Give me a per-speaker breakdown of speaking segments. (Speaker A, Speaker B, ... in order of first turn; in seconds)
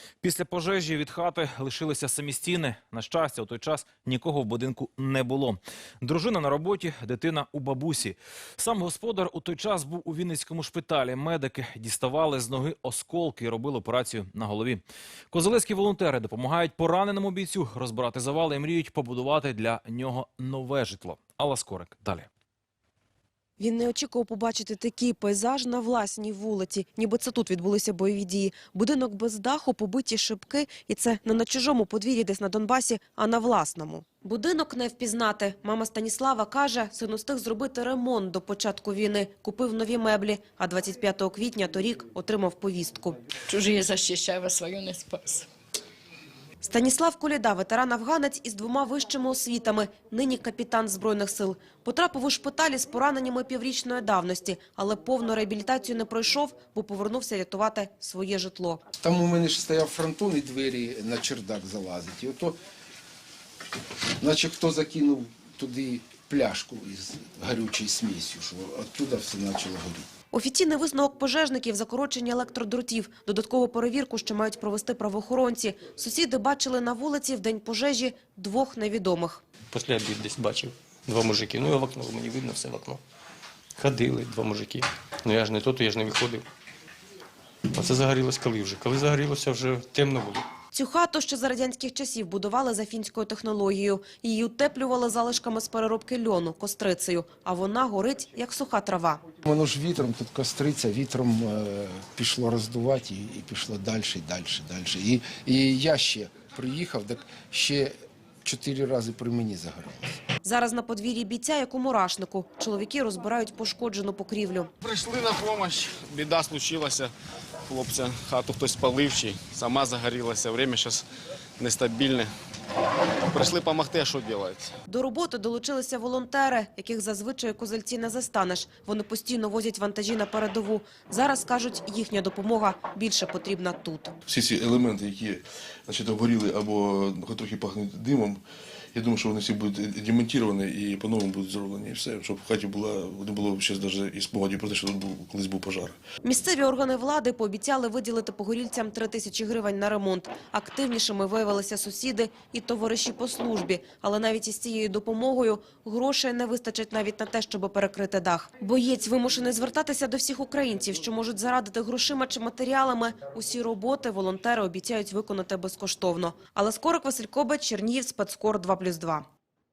Speaker A: 0.2-22.3
Speaker B: 23.6-43.1, 46.6-58.8, 70.3-79.4, 90.7-99.2, 110.4-114.7, 124.9-134.1, 146.2-169.2
Speaker C: 43.5-45.5
Speaker D: 59.0-62.6, 64.2-70.1, 99.4-110.2
Speaker E: 79.7-83.0, 83.8-86.5, 87.7-90.4
Speaker F: 114.8-117.1, 117.7-121.0, 121.6-122.3, 123.3-124.8
Speaker G: 134.3-138.4, 138.9-146.0